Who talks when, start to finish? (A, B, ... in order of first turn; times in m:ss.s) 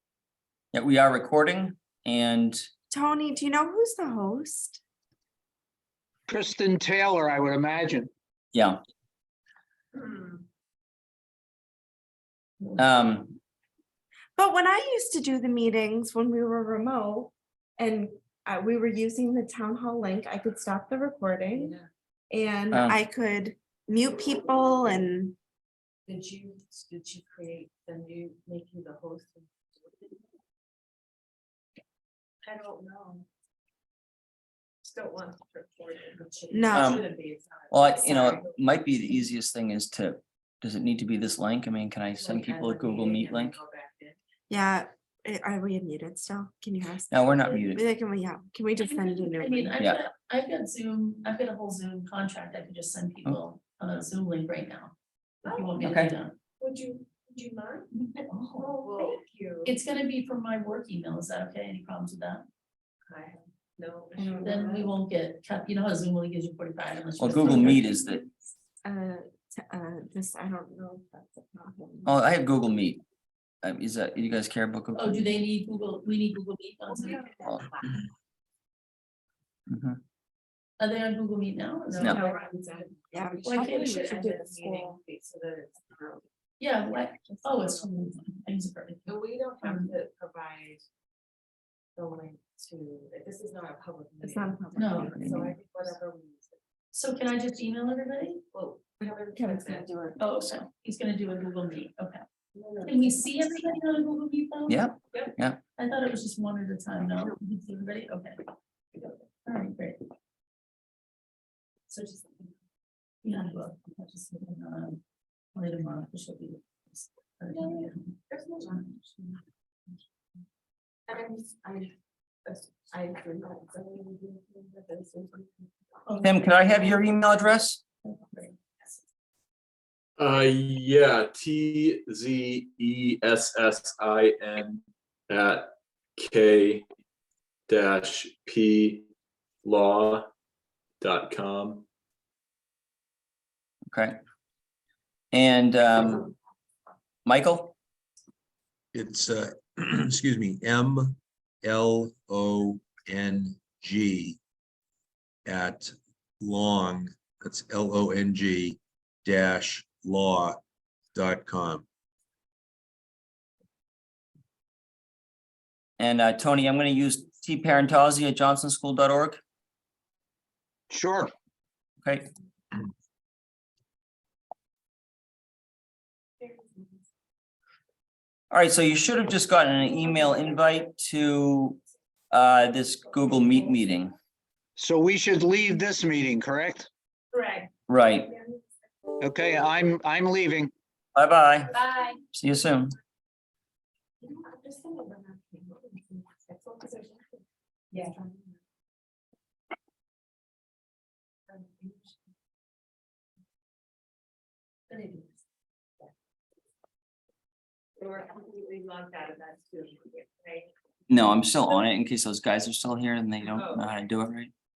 0:00.7-0:02.7 A
0:02.9-0:04.8 B
0:06.3-0:08.1 C
0:08.5-0:08.8 A
0:10.0-0:10.3 D
0:12.8-0:13.4 A
0:14.4-0:21.8 B
0:21.5-0:21.9 D
0:22.3-0:25.4 B
0:22.7-0:23.0 A
0:26.1-0:30.2 D
0:32.4-0:33.2 D
0:34.8-0:38.5 D
0:36.5-0:37.0 B
0:36.7-0:37.1 A
0:37.7-0:43.6 A
0:42.2-0:44.2 D
0:44.5-0:49.7 B
0:47.1-0:47.8 A
0:48.8-0:54.9 E
0:55.4-0:55.7 D
0:55.4-0:56.4 E
0:55.8-0:56.1 A
0:56.6-0:57.9 D
0:58.0-0:58.9 E
0:58.6-0:59.7 D
0:59.6-1:02.4 E
1:03.1-1:05.0 D
1:04.2-1:04.7 B
1:04.4-1:07.8 E
1:07.2-1:08.2 A
1:07.3-1:12.2 B
1:12.0-1:13.0 A
1:13.6-1:15.4 A
1:14.9-1:17.3 E
1:17.0-1:17.5 B
1:19.7-1:20.0 A
1:20.8-1:22.5 E
1:22.0-1:25.0 B
1:22.1-1:26.2 D
1:23.4-1:24.0 E
1:26.6-1:29.9 E
1:27.3-1:27.9 B
1:29.0-1:30.8 D
1:32.0-1:36.6 D
1:34.2-1:35.2 B
1:34.8-1:35.1 E
1:35.0-1:35.6 A
1:36.9-1:38.4 E
1:38.5-1:39.9 D
1:39.1-1:40.2 B
1:40.2-1:42.2 E
1:42.5-1:43.3 D
1:42.8-1:44.8 E
1:44.7-1:45.6 A
1:45.8-1:48.4 E
1:49.4-1:50.0 E
1:51.9-1:52.5 E
1:53.2-1:55.0 E
1:55.5-1:59.0 E
1:57.5-1:57.9 D
1:58.3-1:58.6 B
2:01.1-2:01.9 B
2:02.4-2:06.1 B
2:06.1-2:06.9 E
2:06.2-2:07.8 A
2:08.0-2:09.0 E
2:10.2-2:16.8 F
2:17.7-2:19.1 F
2:19.6-2:20.3 F
2:21.0-2:21.8 F
2:23.9-2:24.2 A
2:25.3-2:26.3 A
2:27.2-2:27.7 A
2:29.0-2:34.4 G
2:35.5-2:35.9 G
2:36.4-2:40.6 G
2:41.1-2:41.8 G
2:46.0-2:49.4 A
2:50.9-2:51.3 C
2:52.0-2:52.3 A
2:58.5-3:04.1 A
3:04.8-3:06.9 C
3:07.3-3:07.7 D
3:07.9-3:08.3 A
3:09.2-3:10.7 C
3:11.1-3:11.8 A
3:11.7-3:12.1 D
3:12.3-3:13.0 A
3:14.2-3:17.3 B
3:17.9-3:18.3 D
3:17.9-3:18.3 B
3:21.5-3:22.2 D
3:24.9-3:25.2 D
3:28.0-3:30.7 D
3:31.1-3:34.5 A
3:33.5-3:33.9 D